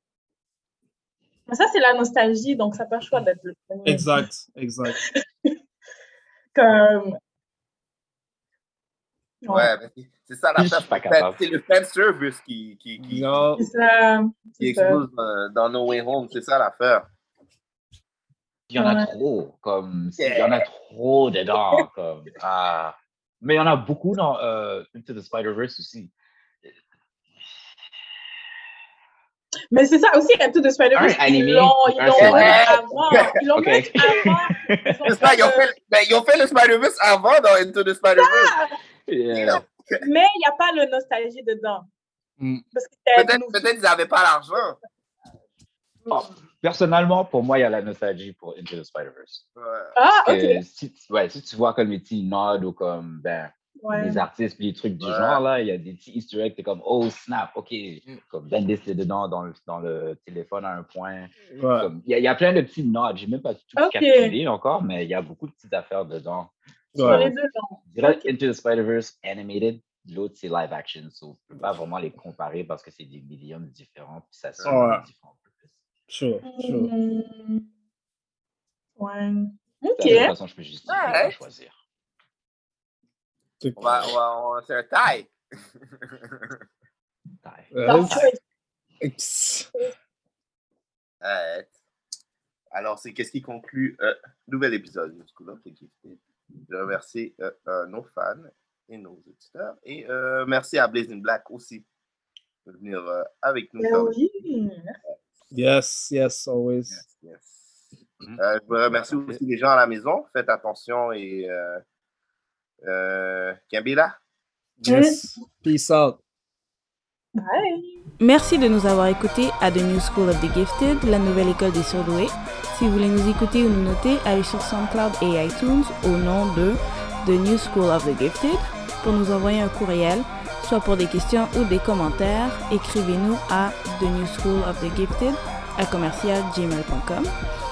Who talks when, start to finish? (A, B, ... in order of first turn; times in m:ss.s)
0:01.5-0:04.2 A
0:03.8-0:05.0 B
0:04.9-0:05.6 A
0:06.6-0:07.2 A
0:09.4-0:09.7 A
0:09.5-0:13.4 C
0:10.6-0:11.4 D
0:13.0-0:13.6 B
0:13.6-0:15.0 A
0:14.6-0:17.1 C
0:18.7-0:26.1 D
0:18.8-0:19.1 A
0:20.2-0:20.7 C
0:29.7-0:35.7 A
0:30.9-0:33.0 D
0:32.1-0:33.2 C
0:33.6-0:35.0 D
0:35.1-0:38.5 C
0:38.2-0:38.8 A
0:39.1-0:39.6 D
0:39.3-0:40.0 C
0:40.0-0:41.9 A
0:42.7-0:43.7 A
0:43.2-0:44.8 C
0:46.1-0:49.4 D
0:49.6-0:49.9 C
0:50.0-0:50.6 A
0:50.2-1:07.3 D
0:53.8-0:54.2 A
0:55.0-0:55.4 C
1:01.6-1:01.9 B
1:03.8-1:04.4 A
1:06.9-1:07.3 B
1:07.0-1:08.3 A
1:07.9-1:15.8 D
1:14.6-1:15.0 B
1:16.1-1:16.9 B
1:16.4-1:17.6 A
1:19.0-1:20.3 A
1:20.0-1:21.7 D
1:20.9-1:21.3 C
1:23.6-1:23.9 B
1:23.8-1:25.3 C
1:27.4-1:28.2 D
1:27.7-1:28.3 B
1:27.9-1:28.4 A
1:29.0-1:29.7 B
1:31.2-1:31.7 C
1:32.7-1:41.9 C
1:42.7-1:44.1 C
1:43.8-1:45.0 A
1:45.5-1:47.0 B
1:47.0-1:51.8 C
1:48.2-1:49.4 D
1:52.8-1:54.2 C
1:54.8-1:56.2 B
1:54.9-1:55.4 A
1:57.4-1:58.0 A
1:58.2-2:17.3 E